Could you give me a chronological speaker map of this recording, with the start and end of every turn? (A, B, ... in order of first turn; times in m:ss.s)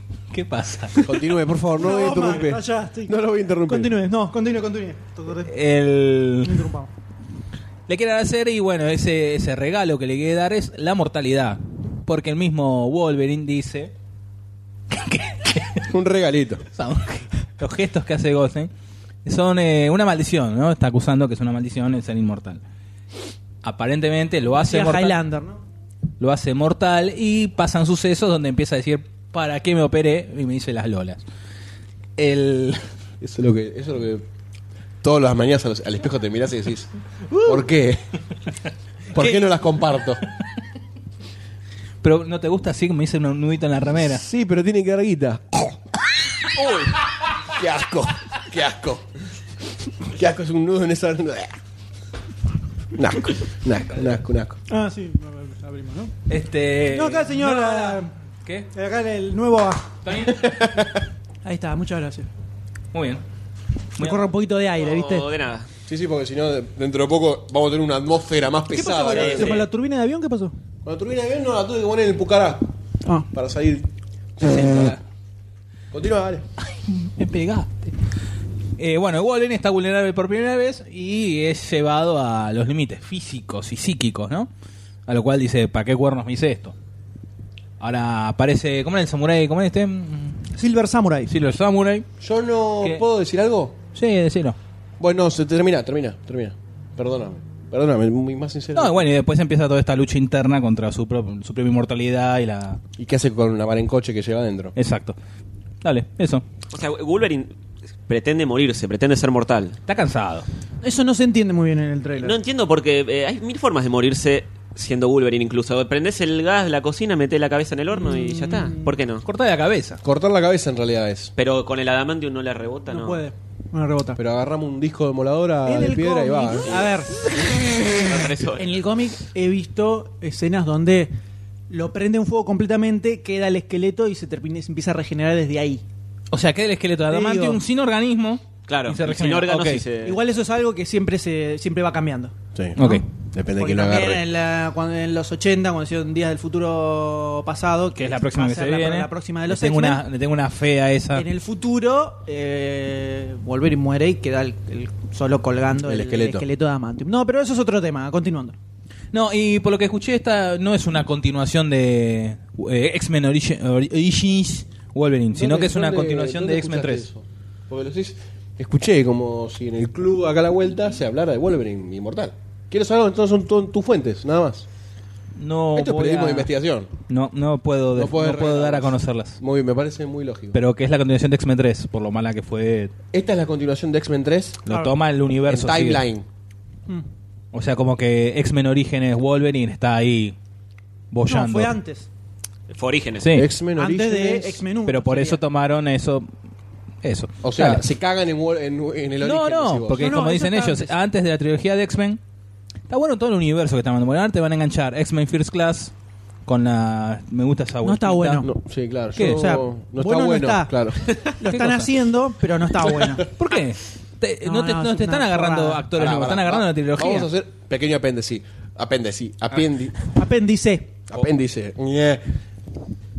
0:00.3-0:01.1 A
0:01.0-0:03.9 B
0:01.8-0:05.5 C
0:05.4-0:06.6 A
0:06.4-0:06.9 C
0:07.9-0:13.9 A
0:14.9-0:15.9 A
0:15.9-0:16.6 B
0:16.7-0:18.7 A
0:19.2-0:22.6 A
0:23.6-0:25.2 A
0:24.5-0:25.6 C
0:26.2-0:31.2 A
0:32.2-0:32.9 A
0:33.2-0:34.2 B
0:35.0-0:36.9 B
0:37.4-0:38.0 B
0:39.1-0:40.2 B
0:39.1-0:39.4 A
0:42.0-0:44.2 A
0:44.0-0:45.8 B
0:46.6-0:47.0 D
0:47.4-0:49.0 B
0:50.0-0:51.5 B
0:52.9-0:54.6 B
0:54.7-0:56.1 C
0:56.3-0:58.7 A
0:56.9-0:58.1 C
0:58.7-0:59.9 C
1:00.0-1:00.6 A
1:00.3-1:01.0 B
1:01.4-1:02.3 C
1:02.9-1:03.2 A
1:04.0-1:04.3 A
1:04.0-1:05.3 C
1:04.8-1:05.7 D
1:05.9-1:09.6 B
1:08.7-1:10.5 C
1:09.1-1:09.6 D
1:10.8-1:12.7 B
1:13.3-1:13.9 B
1:14.4-1:14.9 B
1:14.5-1:15.0 A
1:15.9-1:16.4 B
1:16.7-1:17.9 A
1:18.8-1:24.5 A
1:25.1-1:26.7 A
1:27.8-1:30.4 A
1:30.5-1:31.3 C
1:31.3-1:32.1 A
1:32.2-1:33.8 B
1:33.9-1:34.6 A
1:35.0-1:39.0 B
1:38.7-1:42.8 A
1:43.0-1:44.7 B
1:44.8-1:45.2 A
1:45.8-1:46.4 A
1:46.7-1:47.5 D
1:48.1-1:49.8 D
1:49.8-1:50.4 A
1:50.8-1:52.3 C
1:52.2-1:59.2 D
1:57.9-1:59.0 C
1:59.2-2:00.0 A
2:00.0-2:01.3 B
2:01.4-2:03.2 D
2:02.9-2:04.2 C
2:04.2-2:06.8 B
2:05.6-2:07.3 C
2:06.6-2:08.6 D
2:08.5-2:11.1 C
2:11.7-2:15.8 C
2:16.3-2:19.8 A
2:17.1-2:17.6 C
2:18.7-2:20.2 D
2:20.0-2:23.0 C
2:22.5-2:22.8 B
2:22.8-2:23.0 A
2:23.3-2:24.2 B
2:23.6-2:30.0 C
2:28.0-2:31.2 A
2:31.1-2:38.6 C
2:35.8-2:36.4 B
2:39.1-2:47.0 A
2:45.3-2:54.6 B
2:55.4-2:56.5 A
2:55.7-2:56.9 B
2:57.1-2:59.4 A
2:57.9-3:00.6 B
3:00.5-3:02.9 A
3:03.1-3:04.6 B
3:04.6-3:06.0 A
3:05.5-3:06.2 B
3:07.5-3:10.4 A
3:11.1-3:11.7 A
3:11.3-3:12.1 C
3:12.7-3:13.4 D
3:13.2-3:13.5 A
3:13.3-3:14.6 B
3:13.8-3:15.4 C
3:14.8-3:16.3 A
3:17.0-3:17.8 A
3:17.4-3:20.2 B
3:19.2-3:22.2 A
3:19.9-3:20.9 C
3:22.9-3:25.9 A
3:26.4-3:28.4 A
3:27.8-3:28.5 C
3:28.4-3:31.1 B
3:29.2-3:29.5 A
3:29.2-3:30.7 C
3:31.4-3:33.3 C
3:31.4-3:31.9 A
3:33.0-3:33.2 B
3:33.4-3:37.3 A
3:34.4-3:35.9 C
3:35.9-3:40.0 B
3:40.1-3:40.9 C
3:41.1-3:42.2 B